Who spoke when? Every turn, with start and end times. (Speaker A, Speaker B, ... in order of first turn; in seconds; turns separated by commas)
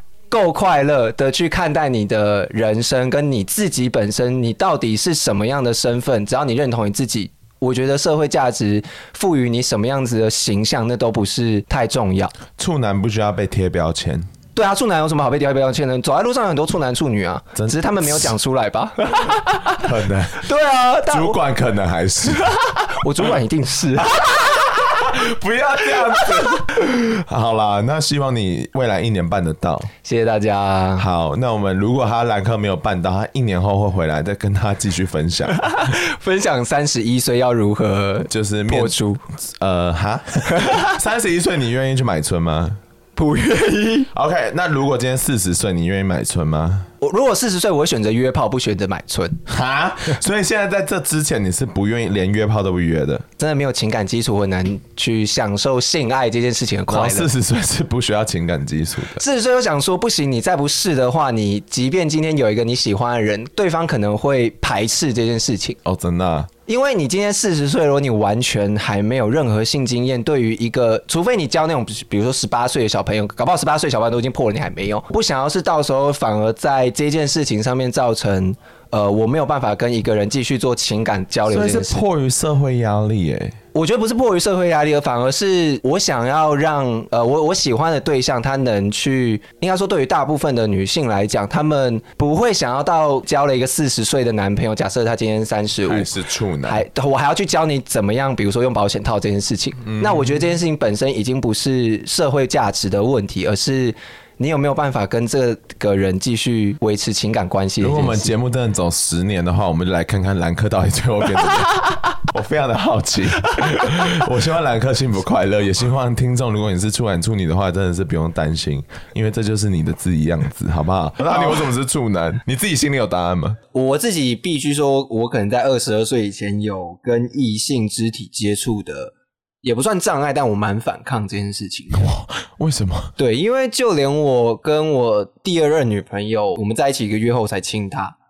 Speaker A: 0.3-12.4, Speaker B: 12.5-14.3, Speaker A: 14.5-19.9, Speaker B: 17.6-18.3, Speaker B: 19.8-20.5, Speaker A: 20.4-21.4, Speaker B: 21.1-22.6, Speaker A: 22.4-24.7, Speaker B: 24.0-29.9, Speaker A: 30.0-31.1, Speaker B: 31.0-35.9, Speaker A: 35.7-39.2, Speaker B: 38.3-42.8, Speaker A: 40.6-40.9, Speaker A: 43.1-44.1, Speaker B: 44.1-46.9, Speaker A: 47.0-49.4, Speaker B: 49.5-53.3, Speaker A: 53.4-57.3, Speaker B: 56.9-59.2, Speaker A: 59.2-65.8, Speaker B: 65.8-66.5, Speaker A: 66.7-82.0, Speaker B: 81.5-83.6, Speaker A: 83.7-96.1, Speaker B: 95.8-96.8, Speaker A: 96.6-108.3, Speaker B: 99.8-100.4, Speaker B: 107.8-123.6, Speaker A: 121.3-121.6, Speaker A: 123.7-132.1, Speaker B: 132.0-133.1, Speaker A: 133.2-138.1